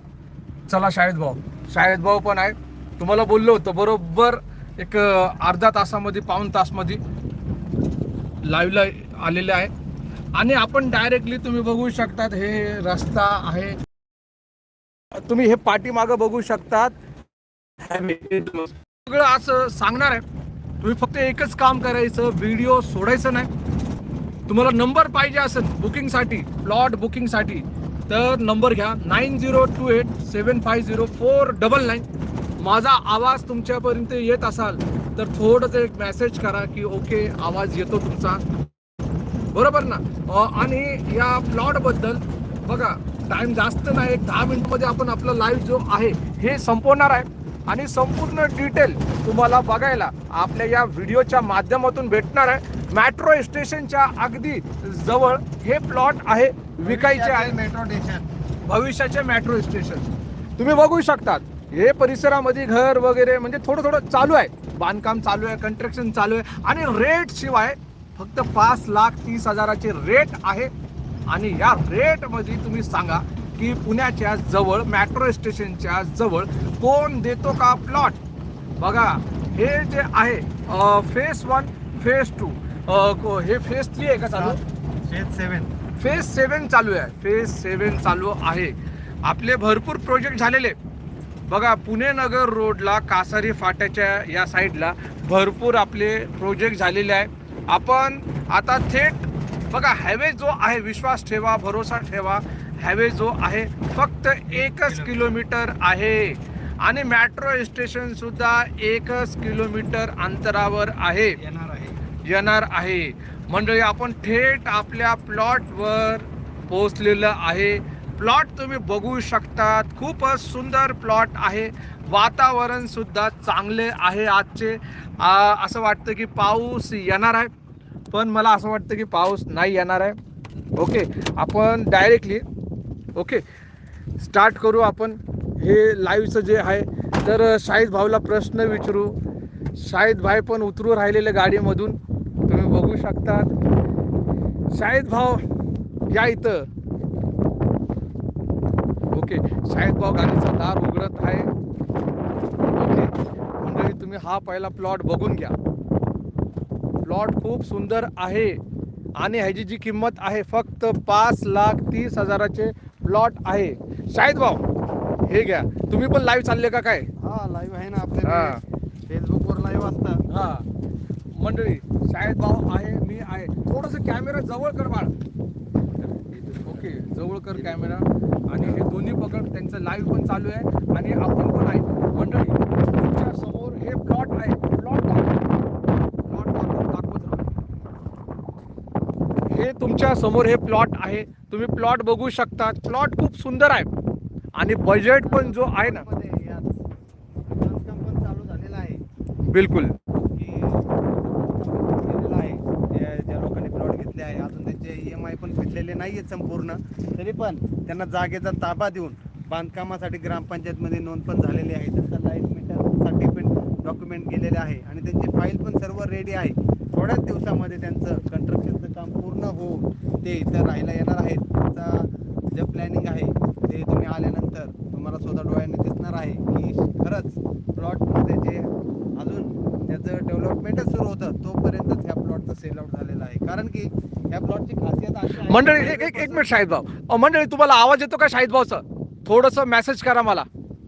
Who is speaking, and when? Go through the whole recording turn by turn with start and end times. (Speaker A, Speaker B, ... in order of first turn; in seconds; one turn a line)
Speaker A: 0.7-7.0
Speaker A: 8.4-9.7
Speaker A: 10.3-13.8
Speaker A: 15.1-16.9
Speaker A: 17.8-20.2
Speaker A: 20.8-23.5
Speaker A: 24.5-32.0
Speaker A: 32.6-38.4
Speaker A: 39.5-57.5
Speaker B: 56.8-58.3
Speaker A: 58.6-60.1
Speaker A: 60.6-70.7
Speaker A: 71.3-78.2
Speaker A: 78.8-84.6
Speaker B: 84.3-85.7
Speaker A: 86.0-88.7
Speaker A: 89.2-90.8
Speaker A: 91.5-111.4
Speaker B: 104.5-105.3
Speaker B: 111.4-112.0
Speaker A: 112.2-127.5
Speaker A: 128.1-130.2
Speaker A: 130.8-132.4
Speaker A: 133.1-133.4
Speaker A: 134.2-139.2
Speaker A: 139.8-142.0
Speaker A: 142.5-143.5
Speaker A: 144.7-145.4
Speaker A: 146.1-146.7
Speaker A: 149.1-151.5
Speaker A: 152.8-155.5
Speaker A: 157.0-158.6
Speaker A: 159.2-164.6
Speaker A: 165.2-167.1
Speaker B: 167.2-170.2
Speaker A: 168.2-168.6
Speaker A: 170.3-170.6
Speaker A: 171.3-175.1
Speaker B: 176.0-176.9
Speaker A: 176.6-185.4
Speaker B: 177.5-177.8
Speaker A: 186.2-187.4
Speaker A: 189.5-193.9
Speaker A: 194.5-196.0
Speaker B: 194.8-196.8
Speaker B: 197.5-199.0
Speaker A: 199.4-200.0
Speaker B: 200.3-236.6
Speaker A: 235.4-240.5